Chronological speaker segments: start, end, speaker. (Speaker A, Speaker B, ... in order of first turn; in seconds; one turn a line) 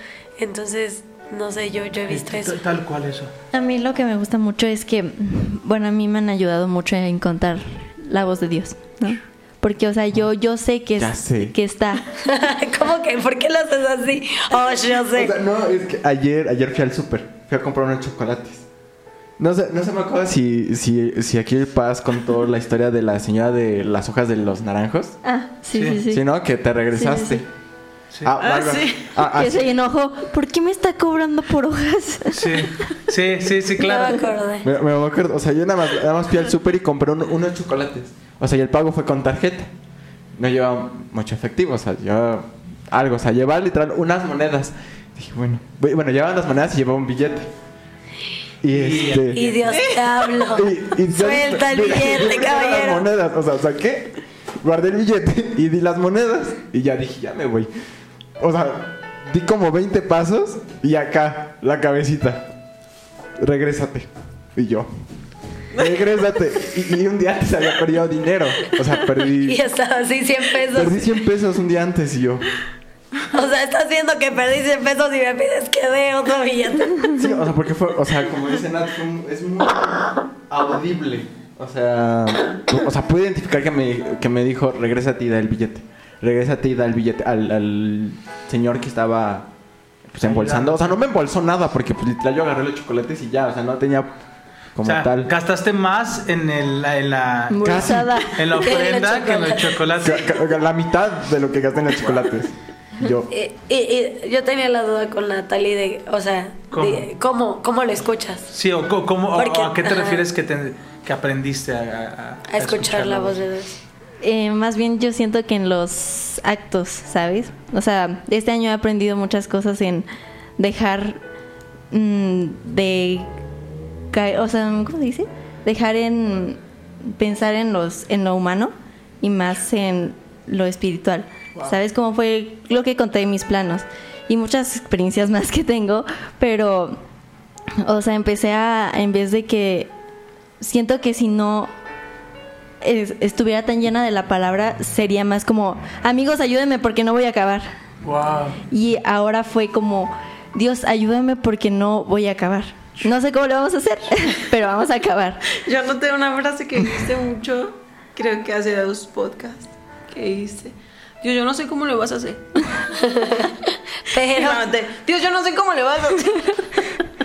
Speaker A: 0.4-2.6
Speaker B: 2.1-3.3
Speaker C: 3.5-12.0
Speaker D: 11.0-11.5
Speaker A: 12.2-15.3
Speaker D: 15.1-18.6
Speaker D: 19.4-25.2
Speaker C: 25.2-26.2
Speaker B: 25.7-26.0
Speaker D: 26.1-27.4
Speaker C: 26.9-27.4
Speaker D: 28.2-29.7
Speaker E: 28.4-29.2
Speaker C: 29.2-32.9
Speaker B: 32.3-34.3
Speaker A: 33.8-34.7
Speaker D: 34.6-39.7
Speaker D: 40.3-47.5
Speaker D: 48.6-49.5
Speaker B: 48.7-50.0
Speaker A: 49.3-53.0
Speaker E: 49.7-50.0
Speaker D: 50.5-57.7
Speaker D: 58.4-62.5
Speaker D: 63.4-64.9
Speaker D: 65.7-69.6
Speaker A: 69.4-71.2
Speaker D: 70.7-72.5
Speaker A: 73.3-77.1
Speaker D: 77.2-89.5
Speaker D: 90.1-94.2
Speaker B: 90.2-91.0
Speaker D: 94.7-95.3
Speaker B: 94.8-100.4
Speaker C: 97.5-98.8
Speaker D: 97.6-98.1
Speaker A: 98.6-99.7
Speaker D: 100.0-103.3
Speaker A: 103.3-108.5
Speaker B: 106.7-107.1
Speaker B: 108.5-113.4
Speaker A: 109.3-110.2
Speaker A: 112.5-113.8
Speaker C: 114.2-121.2
Speaker C: 121.9-123.3
Speaker C: 124.1-137.0
Speaker C: 137.8-139.9
Speaker C: 140.6-141.7
Speaker C: 142.8-147.7
Speaker B: 148.0-148.6
Speaker C: 148.7-155.4
Speaker E: 155.6-162.7
Speaker A: 163.0-164.6
Speaker E: 164.2-167.0